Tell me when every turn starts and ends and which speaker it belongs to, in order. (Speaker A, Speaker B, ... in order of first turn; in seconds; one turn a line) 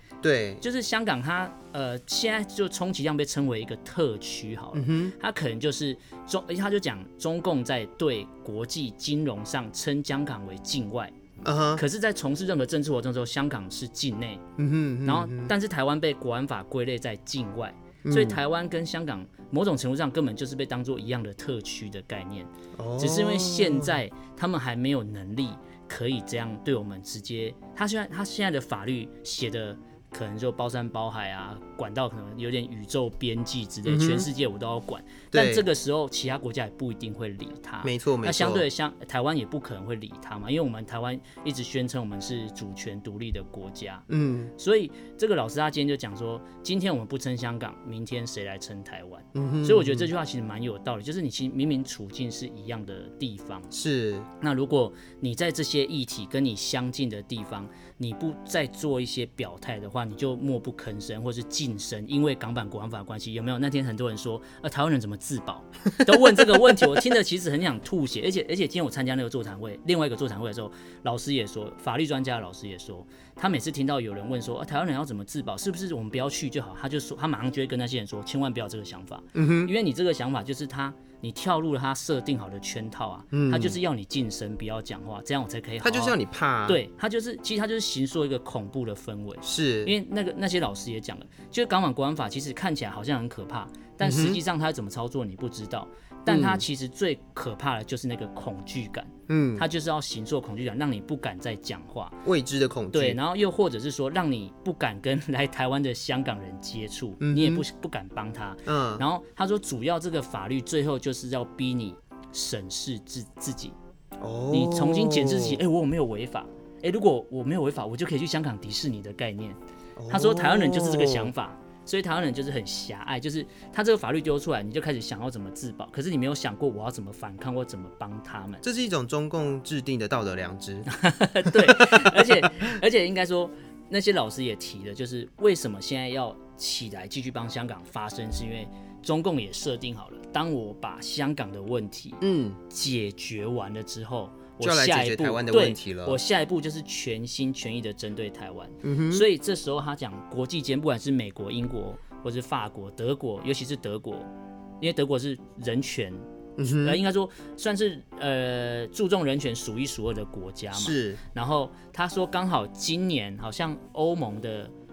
Speaker A: 0.2-0.6
Speaker B: 0.6-11.1
Speaker A: 4.7-5.1
Speaker A: 11.4-11.8
Speaker B: 11.8-14.4
Speaker A: 14.6-15.5
Speaker B: 15.0-44.0
Speaker A: 18.0-18.4
Speaker A: 22.8-24.0
Speaker A: 33.8-34.3
Speaker A: 35.3-35.6
Speaker A: 37.8-38.6
Speaker A: 44.1-44.5
Speaker B: 44.6-53.7
Speaker A: 49.3-50.1
Speaker A: 53.7-54.3
Speaker B: 54.4-102.2
Speaker A: 66.0-66.9
Speaker A: 79.3-79.7
Speaker A: 83.3-83.8
Speaker A: 85.8-86.8
Speaker A: 89.4-89.9
Speaker A: 94.0-94.4
Speaker A: 96.3-96.6
Speaker A: 99.3-99.6
Speaker A: 102.2-103.2
Speaker B: 102.9-113.8
Speaker A: 107.2-107.6
Speaker A: 108.7-109.0
Speaker A: 114.2-115.6
Speaker B: 114.5-119.6
Speaker A: 120.0-121.3
Speaker B: 120.1-128.6
Speaker A: 128.6-130.9
Speaker B: 130.9-164.7
Speaker A: 131.4-132.7
Speaker A: 142.2-142.6
Speaker A: 144.6-146.2
Speaker A: 148.8-149.2
Speaker A: 156.6-157.0
Speaker A: 160.7-161.2